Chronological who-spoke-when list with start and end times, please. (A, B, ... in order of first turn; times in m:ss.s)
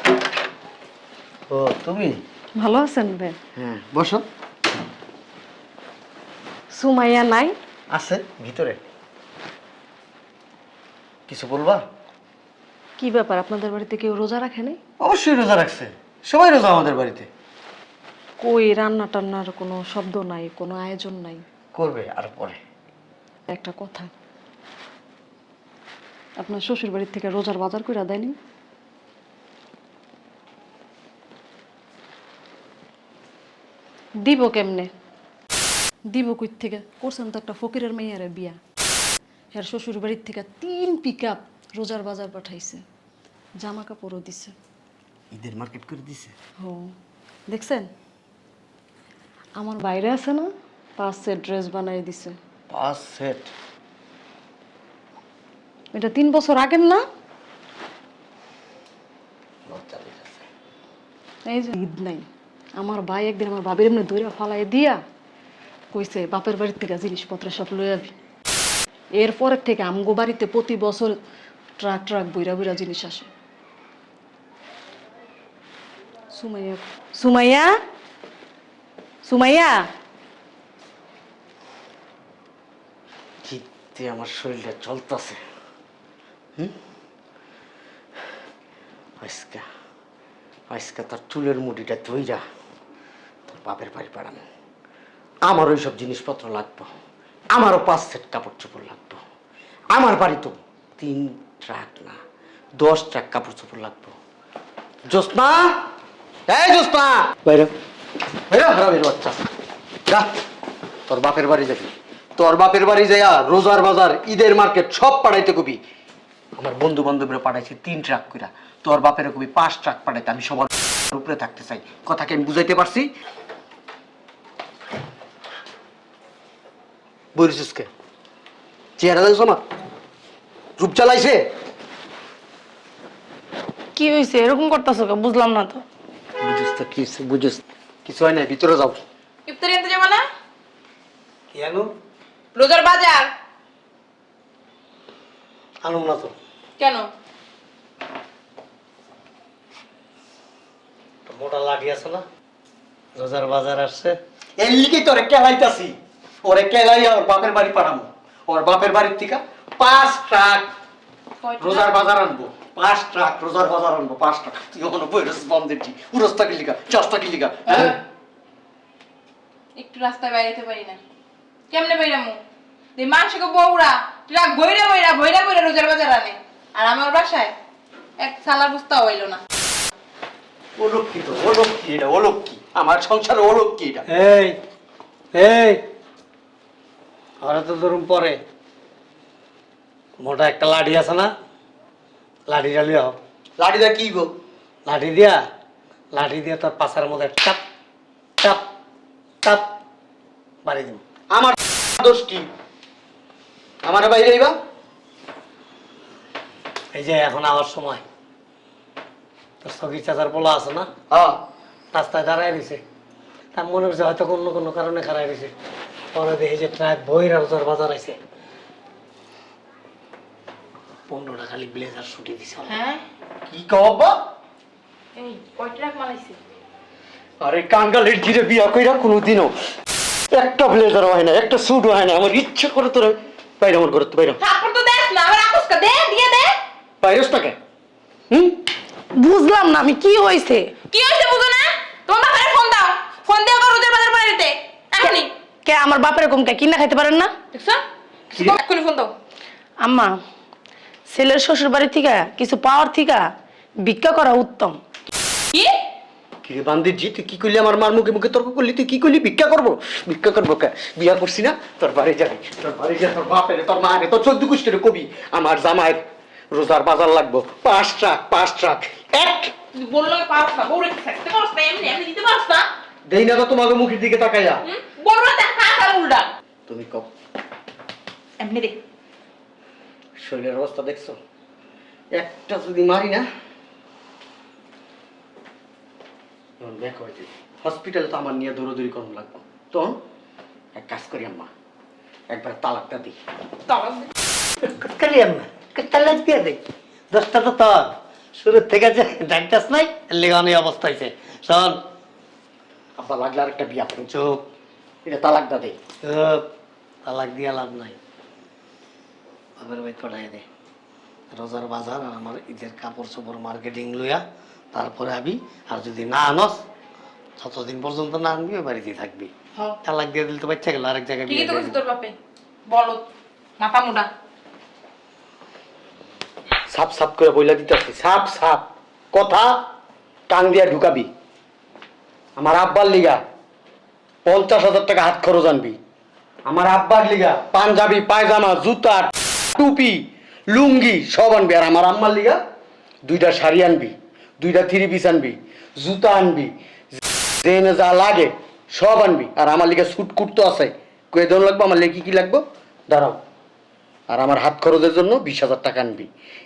0:01.5-0:02.2 A
0:02.6-0:03.4 B
0:03.6-0:04.3 A
0:06.7-0:07.6 B
0:07.9-0:08.8 A
0:11.3-0:11.8 A
0:13.0-0:14.8 B
0:15.0-0:17.3 A
0:18.4-0:21.4 B
0:21.7-0:22.6 A
0:23.5-0:24.1 B
0:26.4-0:28.3 B
0:34.2-0:34.9 B
0:36.1-0:38.6 B
0:39.5-0:42.8 B
0:43.6-0:44.5 B
0:45.3-0:46.4 A
0:46.6-0:46.9 B
0:47.5-0:47.9 B
0:49.6-0:52.4 B
0:52.7-0:53.5 A
0:55.9-0:57.0 B
0:59.7-1:00.4 A
1:01.5-1:05.0 B
1:05.9-1:08.2 B
1:09.2-1:11.2 B
1:11.8-1:13.3 B
1:16.3-1:17.7 B
1:19.2-1:19.9 B
1:23.4-1:25.4 A
1:29.2-1:29.6 A
1:30.7-1:32.4 A
1:33.5-1:34.4 A
1:35.4-1:36.9 A
1:37.5-1:39.2 A
1:39.9-1:42.2 A
1:42.8-1:44.1 A
1:45.1-1:45.8 A
1:46.5-1:47.7 A
1:48.5-1:49.5 A
1:51.1-1:55.8 A
1:56.6-2:03.1 A
2:07.4-2:07.9 A
2:09.0-2:09.6 A
2:10.8-2:11.4 A
2:14.0-2:15.8 C
2:16.4-2:19.0 A
2:19.5-2:20.2 D
2:21.5-2:21.9 E
2:22.6-2:23.3 D
2:25.8-2:26.4 E
2:26.8-2:27.1 D
2:31.3-2:32.2 E
2:33.2-2:34.2 E
2:34.6-2:40.7 A
2:41.4-2:41.9 D
2:41.6-2:48.0 A
2:47.7-2:48.0 D
2:49.8-2:51.0 D
2:51.7-2:52.4 D
2:53.0-2:57.5 D
2:58.2-2:59.4 D
3:00.8-3:04.0 A
3:04.1-3:04.6 E
3:05.3-3:05.8 E
3:07.4-3:08.4 E
3:10.2-3:11.3 E
3:12.5-3:13.2 E
3:13.6-3:14.3 A
3:14.8-3:15.4 E
3:16.1-3:17.6 E
3:20.6-3:21.0 E
3:21.3-3:22.5 A
3:23.8-3:24.6 A
3:26.9-3:28.0 E
3:29.6-3:30.9 E
3:31.1-3:31.4 A
3:31.9-3:32.8 E
3:33.6-3:35.5 E
3:36.1-3:38.2 E
3:41.1-3:42.8 E
3:42.7-3:43.0 D
3:43.5-3:44.2 A
3:45.2-3:46.4 D
3:47.4-3:49.5 A
3:50.3-3:54.4 A
3:54.4-3:56.5 D
3:57.0-3:57.6 A
3:58.3-3:58.6 A
3:59.1-4:00.7 C
4:00.9-4:05.3 D
4:05.0-4:07.3 C
4:07.5-4:09.1 D
4:09.8-4:10.2 C
4:11.1-4:13.3 C
4:13.8-4:14.8 C
4:16.4-4:29.5 A
4:29.7-4:32.7 D
4:33.1-4:34.6 A
4:34.6-4:36.3 D
4:36.7-4:37.1 A
4:38.4-4:38.8 D
4:40.2-4:41.2 A
4:42.2-4:43.3 A
4:46.6-4:50.0 A
4:50.8-4:51.5 A
4:52.3-4:53.2 A
4:53.7-4:54.1 D
4:54.6-4:56.6 E
4:57.1-5:01.8 E
5:03.0-5:04.1 A
5:04.1-5:04.4 E
5:05.0-5:05.8 A
5:06.0-5:06.4 E
5:07.0-5:08.0 E
5:09.6-5:10.4 E
5:11.3-5:16.6 E
5:17.4-5:19.3 E
5:19.8-5:21.8 E
5:21.3-5:22.2 D
5:22.7-5:23.1 D
5:23.6-5:24.1 D
5:26.7-5:29.5 A
5:30.3-5:31.1 A
5:32.4-5:33.2 A
5:34.3-5:35.8 A
5:36.5-5:42.4 A
5:43.0-5:46.5 A
5:47.4-5:53.2 A
5:54.1-5:56.1 A